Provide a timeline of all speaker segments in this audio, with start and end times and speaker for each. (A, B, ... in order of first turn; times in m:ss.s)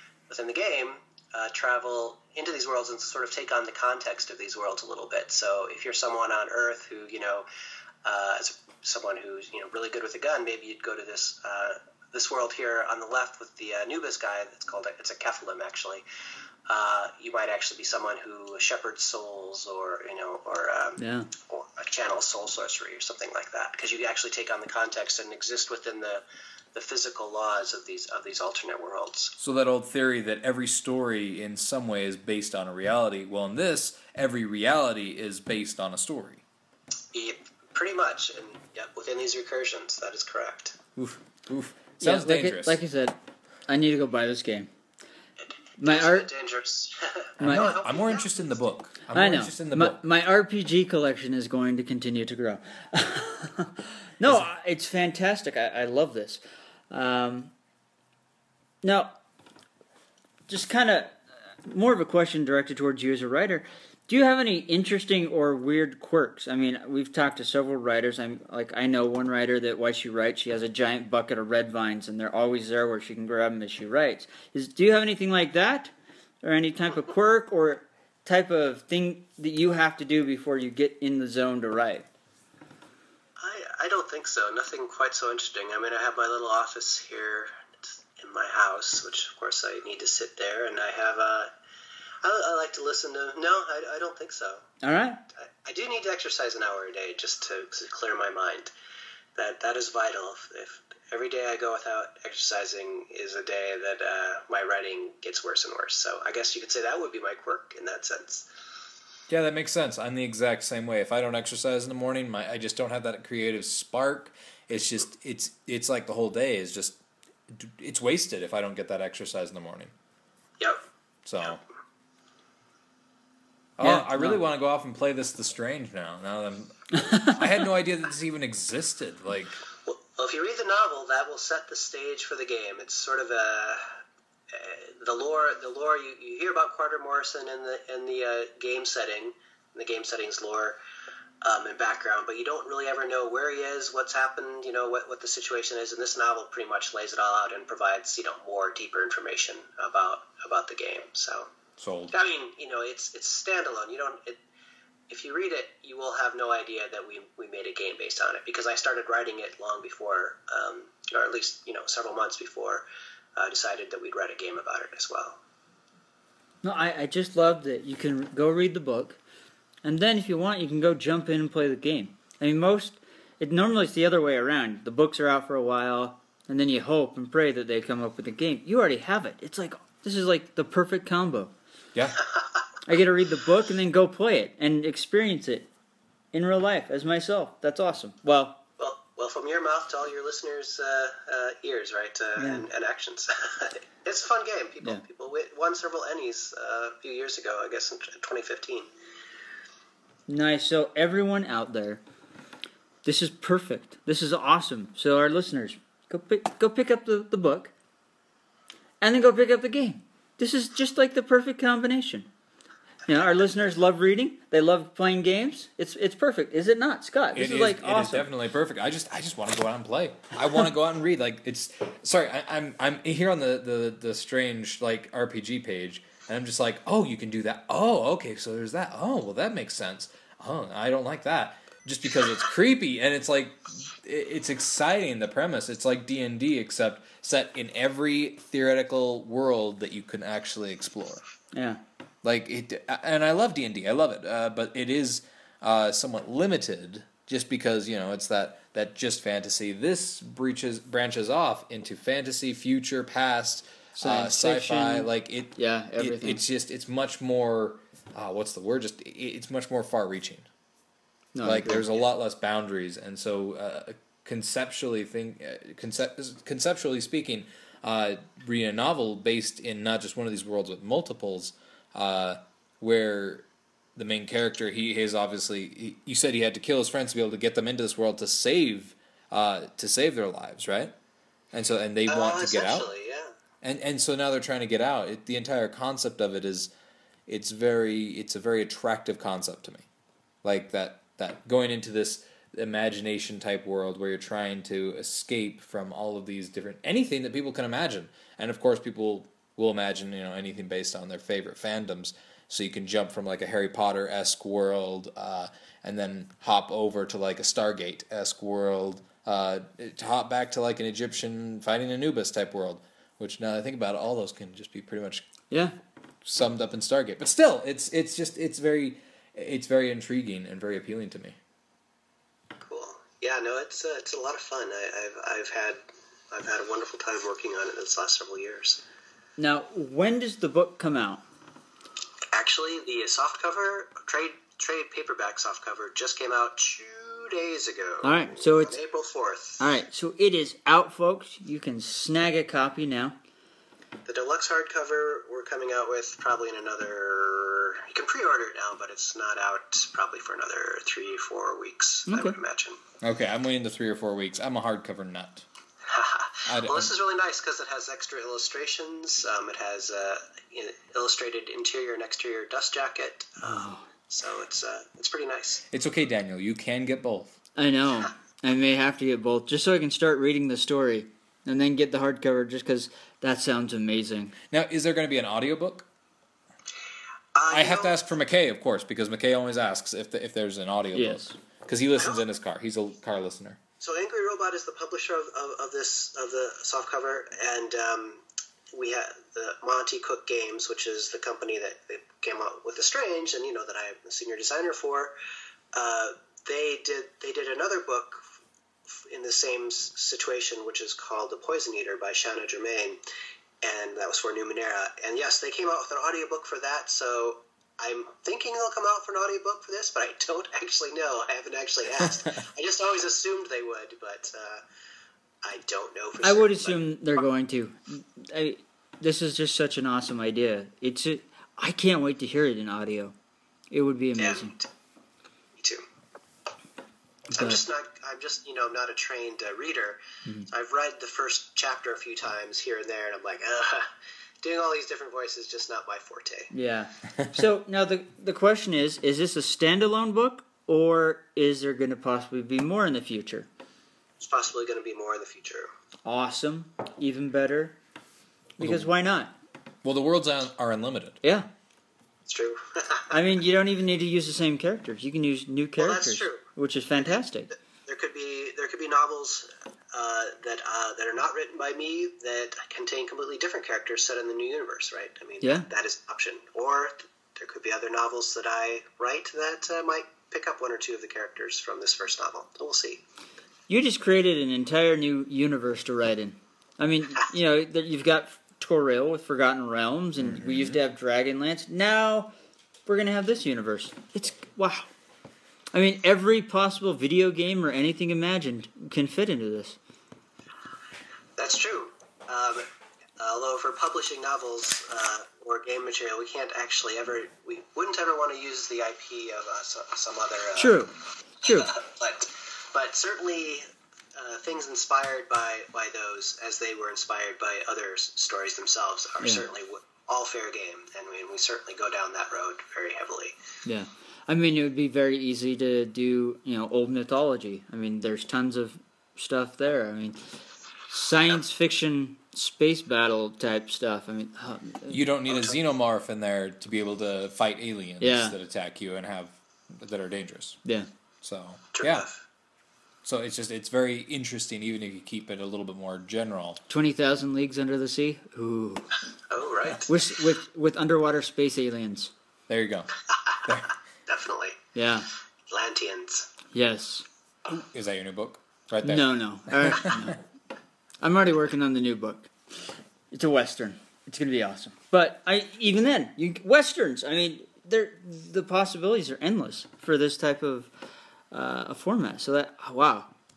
0:00.3-0:07.5 A
0:08.0-0:16.0 A
0:16.7-0:29.3 A
0:21.0-0:21.3 B
0:29.4-0:36.4 C
0:37.1-0:40.8 A
0:41.0-0:42.8 C
0:42.0-0:44.7 B
0:45.8-0:46.3 B
0:45.8-0:48.3 A
0:47.4-0:47.7 B
0:47.4-0:50.0 C
0:49.1-0:57.5 B
0:58.8-0:59.2 B
1:00.5-1:22.1 B
1:23.4-1:27.5 A
1:28.2-1:31.5 A
1:32.2-1:34.6 A
1:34.8-1:35.2 B
1:35.6-1:38.7 A
1:39.4-1:48.5 A
1:49.3-1:59.9 C
2:01.2-2:01.6 C
2:03.8-2:09.6 C
2:03.8-2:04.4 B
2:07.0-2:07.4 B
2:09.9-2:13.8 A
2:14.5-2:20.8 A
2:21.4-2:31.5 A
2:31.8-2:32.1 C
2:32.1-2:34.4 A
2:35.1-2:42.8 A
2:43.4-2:45.4 A
2:46.6-2:49.2 B
2:49.8-3:01.5 B
3:02.0-3:02.2 C
3:02.9-3:05.7 B
3:06.3-3:08.6 B
3:08.8-3:18.9 A
3:12.4-3:12.7 B
3:20.3-3:22.0 B
3:23.0-3:27.7 B
3:29.0-3:32.3 B
3:33.1-3:38.3 B
3:37.4-4:01.2 C
4:01.5-4:01.8 B
4:02.2-4:20.5 C
4:14.0-4:16.4 B
4:21.3-4:21.9 B
4:21.4-4:40.9 C
4:41.5-4:42.9 C
4:42.1-4:43.3 A
4:43.6-4:46.7 C
4:47.3-4:49.9 C
4:50.4-5:15.3 C
5:15.5-5:15.8 B
5:16.2-5:21.4 C
5:22.6-5:25.8 A
5:26.3-5:28.8 A
5:29.4-5:31.2 B
5:32.3-5:39.6 A
5:38.0-5:38.8 B
5:39.6-5:43.2 B
5:44.1-5:52.8 A
5:52.1-5:52.4 B
5:53.0-5:55.4 C
5:55.9-6:05.6 A
5:56.5-5:56.9 C
6:03.4-6:03.8 B
6:05.7-6:07.4 C
6:07.6-6:14.3 B
6:14.5-6:15.9 C
6:17.4-6:18.0 A
6:17.5-6:23.6 C
6:21.0-6:21.4 B
6:22.0-6:22.2 A
6:23.8-6:28.2 A
6:28.7-6:35.2 A
6:35.7-6:38.2 A
6:38.9-6:43.0 A
6:43.6-6:54.6 A
6:55.4-6:56.8 A
6:56.2-7:03.1 B
7:03.7-7:04.6 B
7:04.2-7:04.7 A
7:05.6-7:05.8 A
7:07.3-7:07.6 B
7:07.3-7:13.9 A
7:14.4-7:16.5 A
7:16.5-7:23.5 B
7:24.2-7:25.7 A
7:26.0-7:27.8 B
7:28.6-7:29.3 B
7:28.6-7:28.9 C
7:29.8-7:31.2 C
7:31.2-7:31.5 B
7:32.3-7:33.2 A
7:33.1-7:37.5 B
7:35.8-7:36.4 A
7:37.1-7:53.0 A
7:53.7-8:02.3 B
8:00.3-8:00.8 C
8:02.9-8:04.9 B
8:05.7-8:09.8 B
8:11.4-8:12.7 A
8:13.2-8:20.9 A
8:20.6-8:20.9 B
8:21.4-8:21.8 B
8:21.7-8:33.4 A
8:29.2-8:29.5 B
8:33.6-8:45.0 B
8:44.9-8:50.6 C
8:45.3-8:45.6 A
8:48.0-8:48.4 B
8:51.2-8:52.1 C
8:51.8-8:52.2 A
8:53.0-8:56.6 C
8:56.7-8:58.9 B
8:59.3-9:00.0 A
8:59.9-9:02.1 B
9:02.5-9:02.9 C
9:03.4-9:03.7 C
9:04.1-9:04.6 A
9:04.8-9:05.1 B
9:05.5-9:06.3 A
9:06.5-9:07.0 B
9:07.5-9:10.1 C
9:08.8-9:10.2 B
9:11.0-9:20.7 B
9:21.3-9:23.1 B